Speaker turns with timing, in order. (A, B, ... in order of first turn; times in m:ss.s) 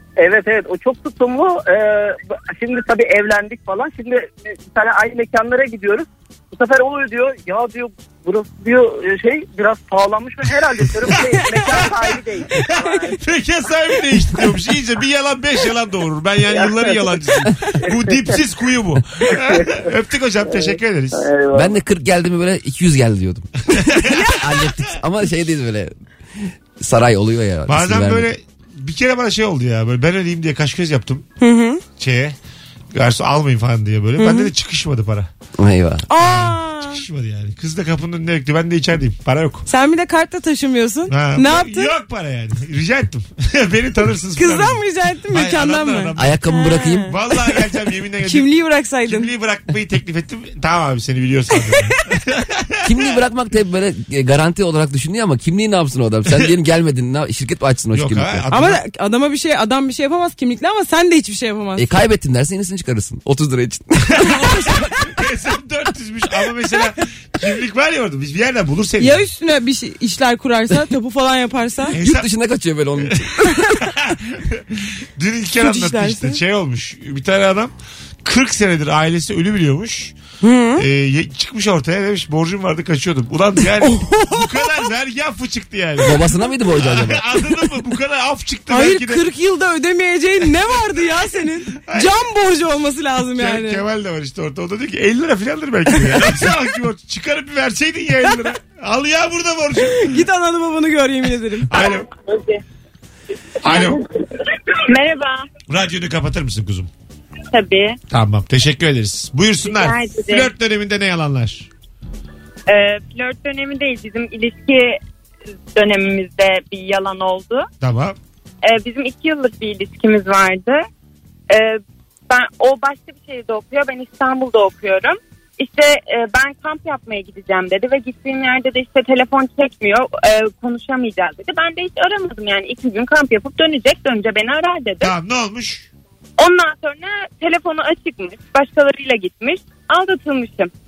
0:00.2-0:13.2 A
0:10.8-0:21.2 B
0:12.8-0:13.1 C
0:16.5-0:17.2 A
0:17.9-0:18.4 A
0:19.3-0:19.8 A
0:20.4-0:21.8 A
0:21.5-0:28.3 D
0:23.7-0:24.3 B
0:27.7-0:31.2 B
0:31.4-0:31.8 C
0:31.9-0:32.4 B
0:32.9-0:35.3 B
0:34.2-0:34.5 C
0:35.6-0:36.1 D
0:36.1-0:37.0 C
0:36.2-0:39.7 B
0:39.7-0:41.9 C
0:41.1-0:46.4 B
0:44.4-0:47.7 C
0:46.2-0:47.1 D
0:47.1-0:48.5 B
0:48.2-0:49.3 C
0:49.0-0:52.9 B
0:51.5-0:51.9 C
0:52.8-0:58.5 D
0:57.9-0:58.8 B
0:58.5-1:01.9 C
1:01.8-1:04.3 D
1:04.2-1:04.9 C
1:05.1-1:09.2 B
1:09.0-1:12.0 C
1:11.9-1:12.3 B
1:11.9-1:13.3 D
1:13.8-1:17.7 B
1:15.6-1:16.4 C
1:18.2-1:20.2 B
1:20.4-1:20.9 C
1:20.8-1:26.2 B
1:23.6-1:24.9 C
1:26.0-1:27.3 D
1:26.8-1:29.2 B
1:28.7-1:33.8 C
1:31.8-1:32.2 B
1:33.3-1:40.2 B
1:35.9-1:36.5 C
1:39.8-1:41.8 C
1:41.7-1:42.1 B
1:41.9-1:42.6 E
1:43.6-1:44.0 B
1:43.7-1:44.0 E
1:44.9-1:45.5 E
1:45.7-1:46.9 B
1:47.5-1:48.0 E
1:48.1-1:51.7 B
1:49.6-1:50.5 E
1:52.7-1:55.0 E
1:55.8-1:57.7 E
1:57.8-1:58.2 B
1:58.6-2:00.8 E
2:01.5-2:15.1 E
2:15.0-2:15.9 B
2:16.4-2:20.7 E